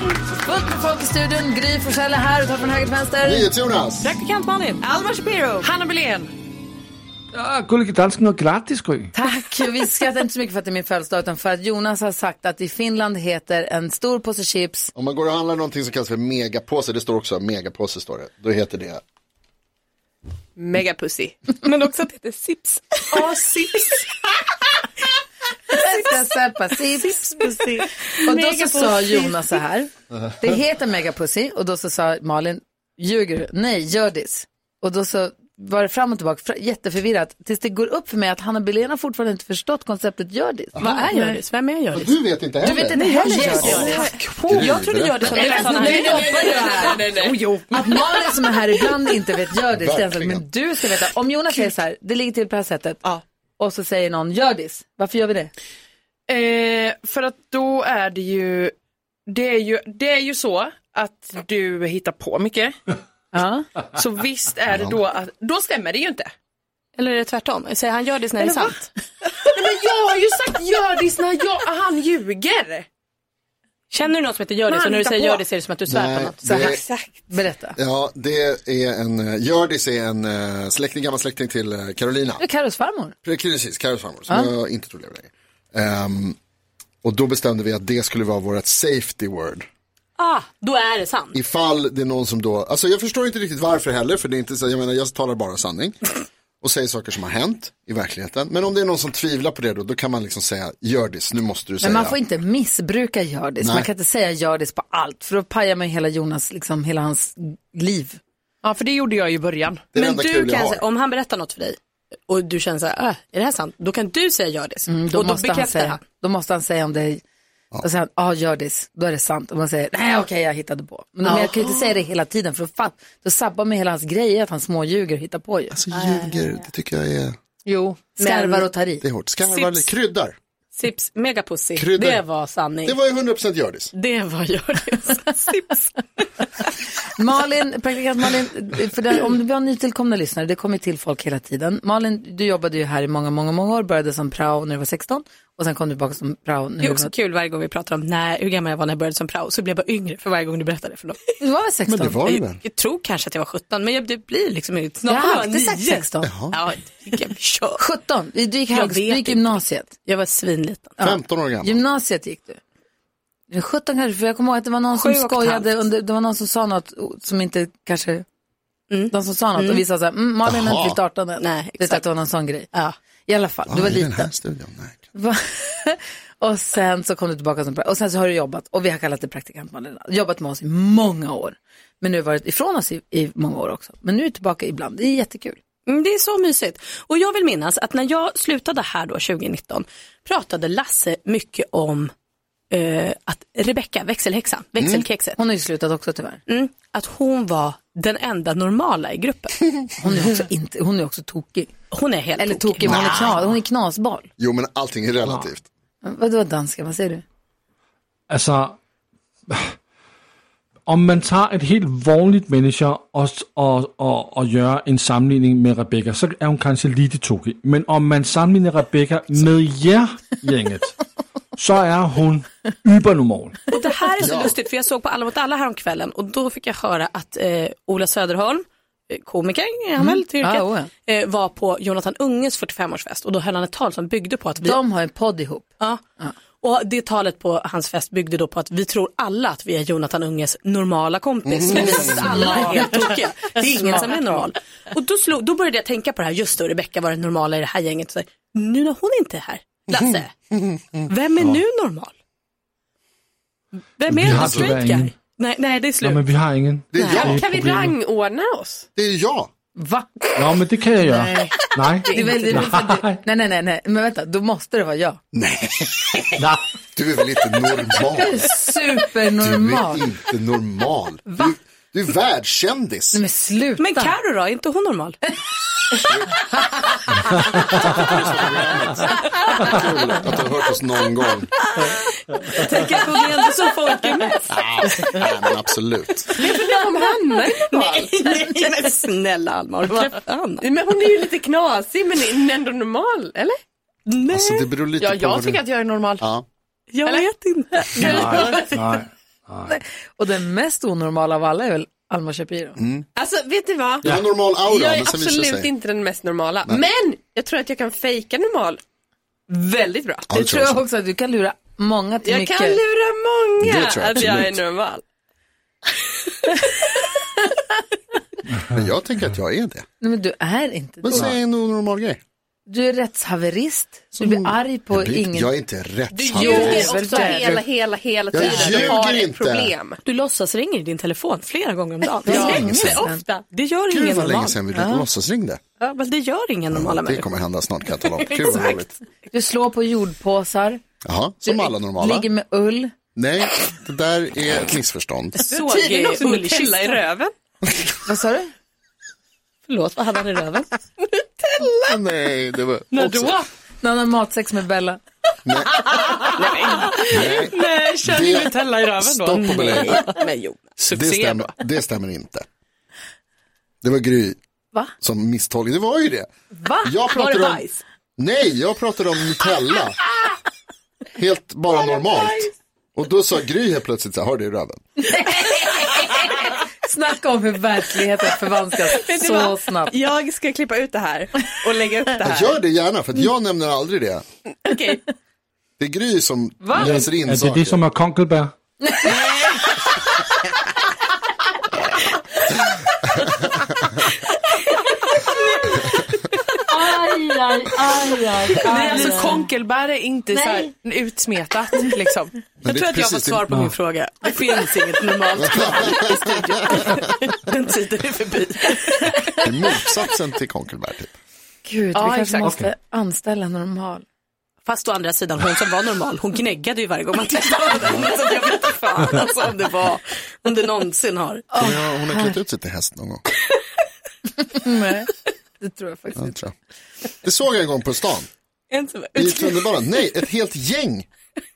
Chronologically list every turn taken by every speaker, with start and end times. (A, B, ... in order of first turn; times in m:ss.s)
0:00.4-0:03.5 A
0:03.2-0:04.1 B
0:04.0-0:04.8 C
0:04.8-0:05.7 D
0:05.6-0:06.3 E
0:07.3-0:09.1 F
0:09.1-0:14.9 A
0:14.9-0:19.0 B
0:20.6-0:21.4 D
0:21.6-0:23.2 C
0:23.1-0:23.6 E
0:23.2-0:23.9 D
0:25.7-0:40.8 A
0:27.6-0:29.0 D
0:40.8-0:42.1 C
0:41.1-0:41.4 E
0:41.9-0:43.0 B
0:42.6-0:47.0 C
0:42.8-0:44.2 E
0:43.0-0:44.0 A
0:43.6-0:43.9 B
0:44.4-0:45.2 B
0:45.3-0:48.1 E
0:45.4-0:47.4 D
0:45.6-0:46.7 A
0:47.7-0:53.0 A
0:49.7-0:50.4 B
0:53.6-0:55.5 A
0:56.3-0:58.7 E
0:59.3-1:02.8 E
1:03.3-1:03.7 A
1:03.9-1:06.3 E
1:07.0-1:08.9 C
1:09.4-1:12.9 E
1:13.9-1:16.4 C
1:14.7-1:15.4 E
1:15.9-1:16.8 B
1:16.4-1:16.7 A
1:16.5-1:17.1 D
1:17.3-1:17.8 A
1:17.8-1:22.4 B
1:22.4-1:23.1 A
1:23.2-1:26.4 B
1:27.0-1:29.7 B
1:30.2-1:31.4 C
1:31.3-1:36.0 B
1:36.6-1:42.2 B
1:41.8-1:48.2 A
1:43.6-1:43.9 B
1:48.6-1:49.8 E
1:49.9-1:50.8 B
1:49.9-1:51.8 C
1:52.3-1:56.0 C
1:54.9-1:57.2 A
1:57.8-2:05.8 A
2:01.3-2:01.7 C
2:05.7-2:07.4 B
2:05.9-2:06.6 C
2:08.0-2:09.0 A
2:08.2-2:08.7 C
2:09.0-2:10.4 B
2:09.5-2:09.9 C
2:10.8-2:13.0 C
2:11.8-2:12.2 B
2:12.8-2:13.9 B
2:13.9-2:15.9 C
2:17.2-2:27.1 A
2:26.8-2:31.3 C
2:31.4-2:32.2 A
2:31.9-2:32.6 B
2:32.3-2:37.8 C
2:35.0-2:36.3 A
2:36.3-2:36.5 B
2:37.8-2:39.9 A
2:38.7-2:41.0 C
2:41.0-2:42.6 A
2:41.0-2:41.8 B
2:43.5-2:48.2 A
2:44.9-2:45.8 C
2:48.9-2:49.8 C
2:49.1-2:52.7 A
2:50.4-2:51.0 B
2:51.4-2:52.0 C
2:53.3-2:54.3 A
2:53.7-2:55.0 B
2:55.1-3:05.6 A
3:05.9-3:12.1 C
3:12.7-3:15.4 C
3:14.8-3:15.0 B
3:15.4-3:16.4 A
3:16.5-3:19.6 C
3:20.0-3:21.7 A
3:21.9-3:23.3 C
3:22.4-3:24.3 A
3:22.8-3:23.4 B
3:24.4-3:25.6 B
3:26.0-3:27.2 A
3:28.3-3:28.8 F
3:29.5-3:29.7 F
3:30.9-3:41.0 F
3:41.6-3:43.6 F
3:43.7-3:54.8 C
3:44.2-3:44.5 B
3:50.0-3:50.9 A
3:54.6-3:55.7 A
3:56.6-4:10.3 C
4:01.4-4:02.6 B
4:09.9-4:11.1 B
4:11.1-4:12.1 C
4:14.0-4:16.2 C
4:14.1-4:15.1 F
4:14.2-4:14.8 B
4:16.0-4:18.0 F
4:16.9-4:17.4 B
4:17.1-4:18.8 D
4:19.0-4:19.5 B
4:19.8-4:20.1 A
4:20.4-4:23.2 F
4:21.1-4:22.8 D
4:22.1-4:25.2 A
4:25.3-4:26.4 B
4:26.4-4:26.6 F
4:26.9-4:28.4 B
4:28.0-4:30.0 A
4:29.4-4:33.2 B
4:33.1-4:34.1 A
4:33.8-4:35.2 C
4:36.1-4:36.3 B
4:37.6-4:41.5 B
4:41.8-4:44.5 C
4:44.5-4:46.3 B
4:46.4-4:48.4 D
4:47.5-4:50.6 C
4:50.6-4:53.6 D
4:54.1-4:54.6 C
4:54.3-4:55.6 B
4:55.0-4:56.3 E
4:56.9-4:58.6 C
4:57.9-4:58.8 D
4:58.0-4:59.7 F
4:59.6-5:02.8 A
5:02.8-5:03.0 B
5:03.2-5:08.8 D
5:04.0-5:05.7 B
5:09.5-5:10.3 D
5:10.3-5:10.8 B
5:10.3-5:12.8 A
5:12.2-5:15.0 D
5:13.6-5:14.6 B
5:18.7-5:19.8 B
5:20.0-5:21.3 A
5:21.0-5:22.2 B
5:22.7-5:25.5 A
5:24.2-5:26.9 B
5:26.2-5:30.0 D
5:26.3-5:27.6 A
5:27.1-5:27.4 C
5:28.3-5:29.7 B
5:30.0-5:34.6 C
5:32.2-5:33.2 A
5:32.3-5:33.0 B
5:32.3-5:33.4 D
5:33.9-5:35.6 B
5:34.7-5:35.0 A
5:35.8-5:37.3 C
5:36.7-5:38.9 B
5:38.1-5:38.8 C
5:39.3-5:40.8 A
5:41.0-5:42.3 B
5:41.4-5:42.9 A
5:43.1-5:45.4 B
5:45.5-5:47.0 C
5:45.5-5:47.3 D
5:48.0-5:48.5 A
5:49.7-5:50.7 C
5:51.8-5:53.4 B
5:52.9-5:53.5 E
5:53.8-5:55.0 A
5:55.4-5:55.9 B
5:56.4-5:57.3 C
5:56.6-6:00.0 E
5:57.1-6:00.0 B
5:59.4-6:00.8 C
6:00.8-6:01.5 E
6:00.9-6:02.4 B
6:03.8-6:04.4 B
6:05.0-6:06.3 B
6:06.5-6:07.2 A
6:06.8-6:07.6 B
6:07.2-6:07.6 C
6:08.2-6:10.0 B
6:11.2-6:14.8 B
6:15.0-6:19.9 A
6:18.9-6:22.6 D
6:22.2-6:24.2 B
6:24.5-6:25.0 D
6:25.8-6:27.8 B
6:26.6-6:27.0 A
6:26.8-6:28.5 F
6:28.8-6:29.6 A
6:35.3-6:35.9 C
6:36.7-6:39.4 A
6:38.5-6:39.4 C
6:38.6-6:42.3 E
6:40.3-6:40.7 A
6:42.6-6:43.4 B
6:42.6-6:49.4 C
6:45.4-6:46.2 B
6:49.4-6:51.1 B
6:51.6-6:54.0 A
6:51.9-6:52.5 E
6:52.4-6:52.7 F
6:54.6-7:01.5 C
7:01.5-7:02.4 A
7:01.6-7:03.2 B
7:04.4-7:06.4 A
7:06.2-7:06.5 B
7:07.2-7:08.3 B
7:08.7-7:10.0 C
7:09.1-7:11.0 B